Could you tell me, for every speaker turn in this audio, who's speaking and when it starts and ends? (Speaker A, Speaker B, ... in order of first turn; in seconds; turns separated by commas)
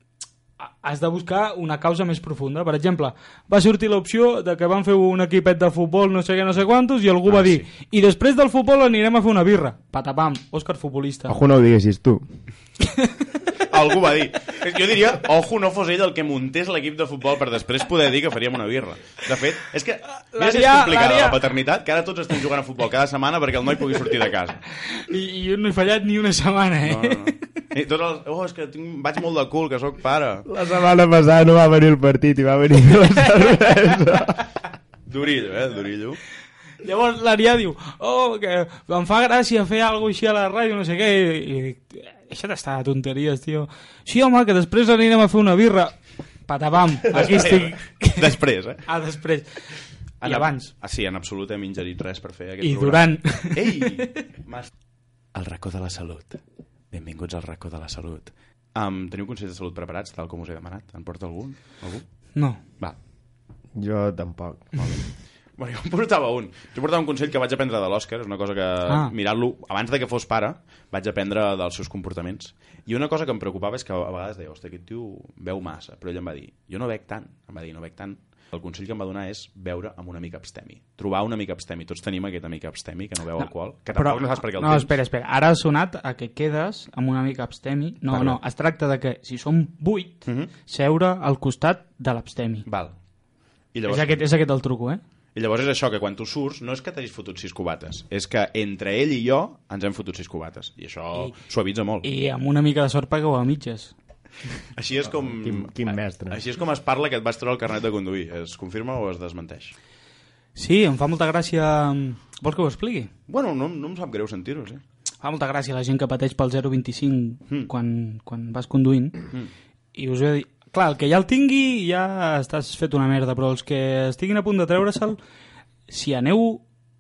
Speaker A: 0.6-11.4, Speaker B: 7.3-7.7, Speaker C: 11.3-12.2, Speaker A: 12.8-13.2, Speaker B: 13.6-24.6, Speaker A: 20.3-21.4, Speaker A: 24.8-27.4, Speaker B: 26.8-30.5, Speaker C: 30.5-34.4, Speaker B: 35.1-36.2, Speaker A: 36.8-46.0, Speaker A: 46.5-49.7, Speaker B: 47.1-48.9, Speaker A: 50.2-50.7, Speaker B: 50.2-54.7, Speaker A: 52.6-54.2, Speaker B: 55.3-56.4, Speaker B: 56.9-62.1, Speaker A: 62.4-62.6, Speaker C: 63.8-64.8, Speaker B: 64.8-65.0, Speaker B: 65.6-84.9, Speaker A: 68.9-69.1, Speaker A: 83.4-92.7, Speaker B: 90.2-90.5, Speaker B: 92.7-93.0, Speaker B: 93.7-94.2, Speaker A: 93.9-95.0, Speaker B: 95.3-102.1, Speaker A: 102.0-103.9, Speaker B: 104.7-109.8, Speaker C: 105.1-106.4, Speaker A: 110.6-113.1, Speaker B: 113.3-114.8, Speaker A: 115.2-119.3, Speaker A: 120.0-125.2, Speaker A: 125.9-126.6